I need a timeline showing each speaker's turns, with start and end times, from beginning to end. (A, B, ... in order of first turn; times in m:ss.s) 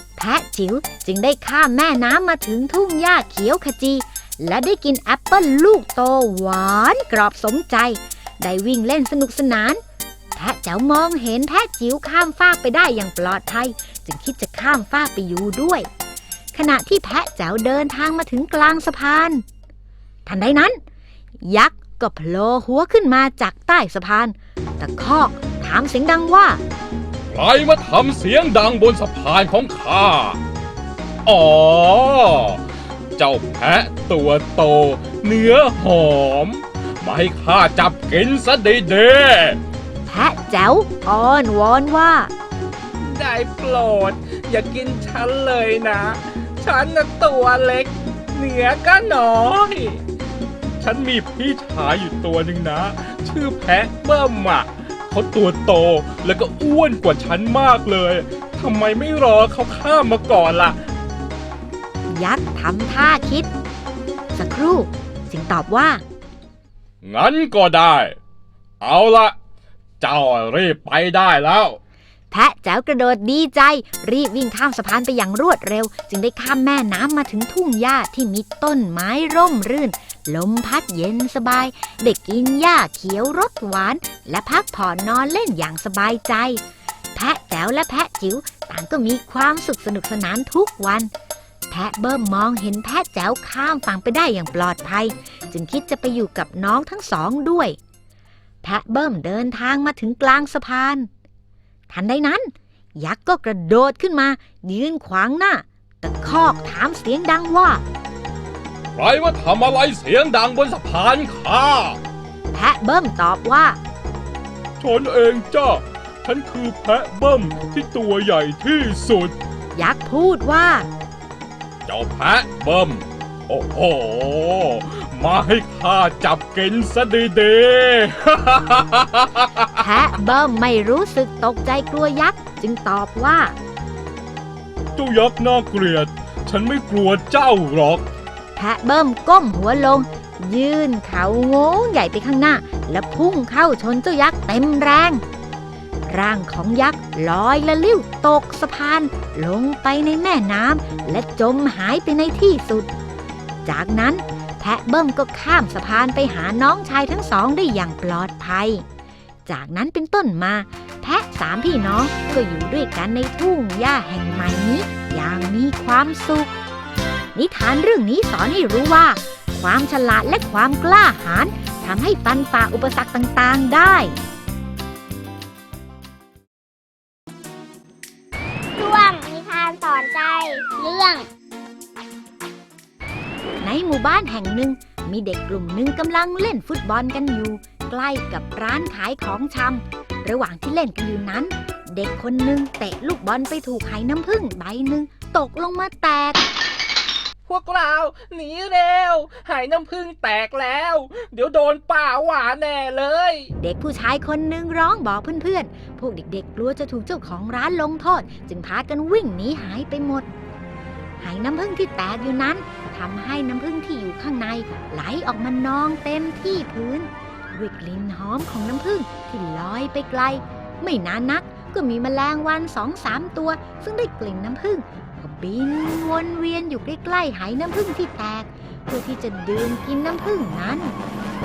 0:00.2-0:09.8 A
0:10.4-0:15.9 A
0:16.5-0:19.4 A
0:20.2-0:20.8 A
0:21.4-0:26.6 A
0:27.3-0:30.4 B
0:31.2-0:32.6 B
0:33.2-0:39.6 B
0:40.1-0:42.3 A
0:43.0-0:50.0 C
0:50.8-1:00.8 B
1:02.1-1:03.5 A
1:04.3-1:06.0 A
1:07.0-1:08.2 B
1:08.8-1:09.3 B
1:10.0-1:11.8 B
1:12.3-1:26.6 A
1:27.1-1:31.1 A
1:31.7-1:37.8 A
1:38.6-1:41.1 A
1:41.9-1:47.8 A
1:48.9-1:52.0 B
1:52.5-1:53.8 A
1:54.8-1:59.3 B
1:59.7-2:00.9 A
2:01.9-2:09.8 B
2:09.8-2:13.5 A
2:15.0-2:18.0 B
2:18.6-2:25.2 A
2:26.1-2:32.9 A
2:33.6-2:38.8 A
2:39.5-2:46.5 A
2:47.3-2:54.2 A
2:58.8-3:01.3 D
3:03.6-3:16.4 A
3:17.5-3:23.5 C
3:23.6-3:30.3 A
3:31.2-3:50.9 A